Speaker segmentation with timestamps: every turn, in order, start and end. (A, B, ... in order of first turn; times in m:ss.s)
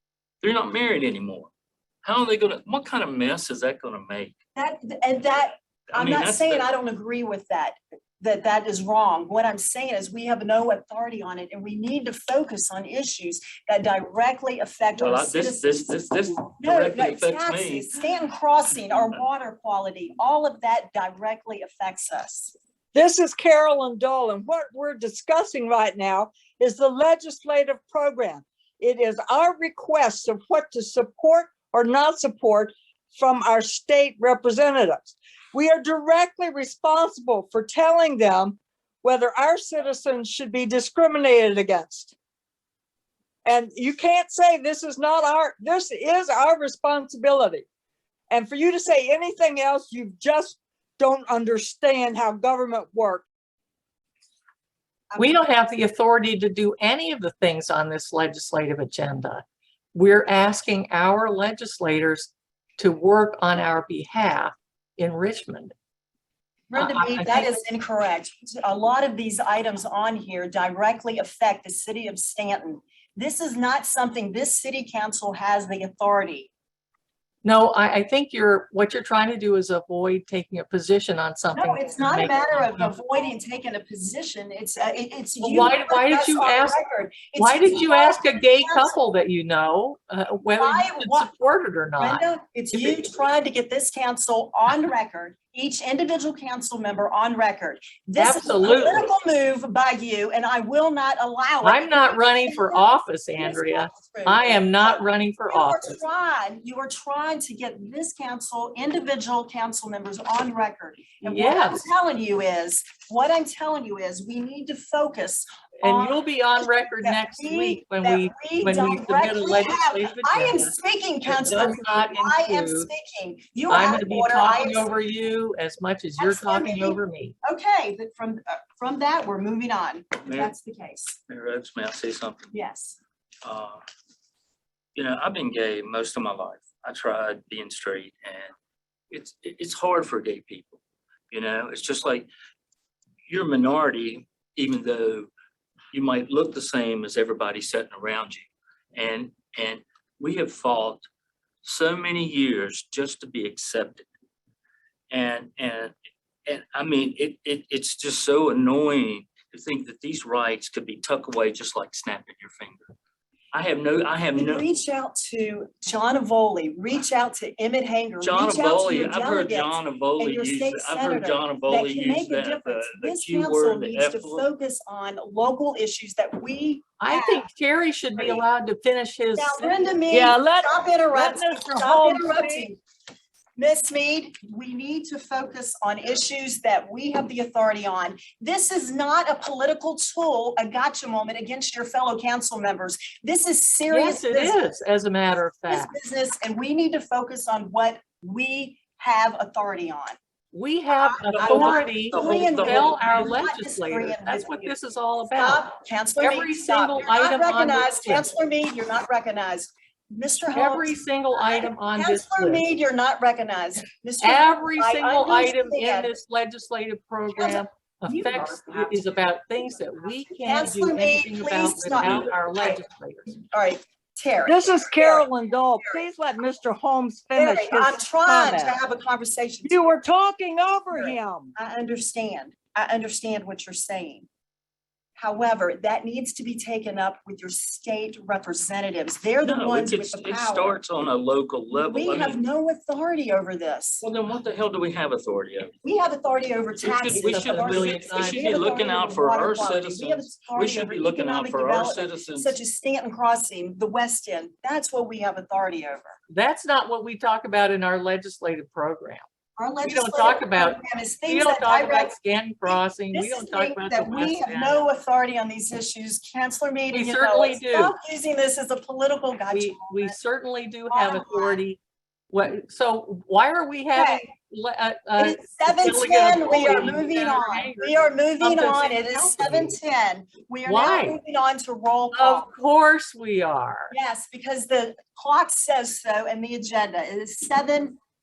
0:00.4-0:01.5 A
0:02.0-0:04.4 A
0:04.6-0:22.5 B
0:05.9-0:06.6 A
0:15.0-0:17.9 A
0:22.9-0:42.1 C
0:43.4-0:47.6 C
0:48.3-0:53.2 C
0:55.1-0:55.4 B
0:55.2-0:59.4 D
0:59.9-1:05.7 D
1:06.7-1:16.5 B
1:06.7-1:07.6 D
1:17.4-1:23.0 D
1:21.5-1:28.9 B
1:25.4-1:26.8 D
1:27.4-1:33.0 D
1:30.6-1:31.3 B
1:32.0-2:04.9 B
1:38.2-1:39.1 D
1:41.6-1:46.0 D
1:51.2-1:51.8 D
1:55.8-2:00.7 D
2:01.3-2:02.9 D
2:03.7-2:07.4 D
2:06.2-2:11.2 B
2:10.2-2:10.5 A
2:11.3-2:12.5 A
2:12.5-2:13.0 B
2:13.4-2:13.8 A
2:14.9-2:18.5 A
2:19.1-2:22.3 A
2:23.3-2:25.3 A
2:25.9-2:31.0 A
2:31.6-2:34.1 A
2:35.1-2:35.9 A
2:36.4-2:42.9 A
2:43.5-2:44.6 A
2:44.4-2:57.5 B
2:48.2-2:54.4 A
2:57.0-3:00.0 D
2:58.2-2:58.4 B
2:59.4-3:02.8 B
3:00.1-3:02.7 C
3:03.6-3:14.6 B
3:13.9-3:15.9 D
3:15.7-3:20.2 B
3:20.5-3:28.3 D
3:20.9-3:24.8 B
3:21.3-3:23.0 A
3:25.3-3:36.2 B
3:30.5-3:32.6 D
3:34.2-3:43.3 D
3:37.4-3:39.1 B
3:40.4-3:42.8 B
3:43.5-3:45.3 B
3:44.5-3:48.8 C
3:45.8-3:46.0 B
3:47.3-3:50.0 B
3:49.6-3:51.5 C
3:50.9-3:54.3 B
3:55.2-4:00.8 B
3:59.4-4:02.4 A
4:01.7-4:04.0 B
4:04.0-4:05.7 A
4:05.8-4:16.2 B
4:06.8-4:12.6 A
4:07.1-4:08.6 D
4:16.3-4:19.2 D
4:19.6-4:30.2 B
4:19.8-4:24.8 D
4:26.9-4:27.9 D
4:29.5-4:31.8 D
4:30.9-4:31.6 B
4:32.3-4:39.8 D
4:33.9-4:34.2 B
4:35.2-4:42.5 B
4:40.6-4:41.2 D
4:42.1-4:43.9 D
4:43.9-4:48.0 B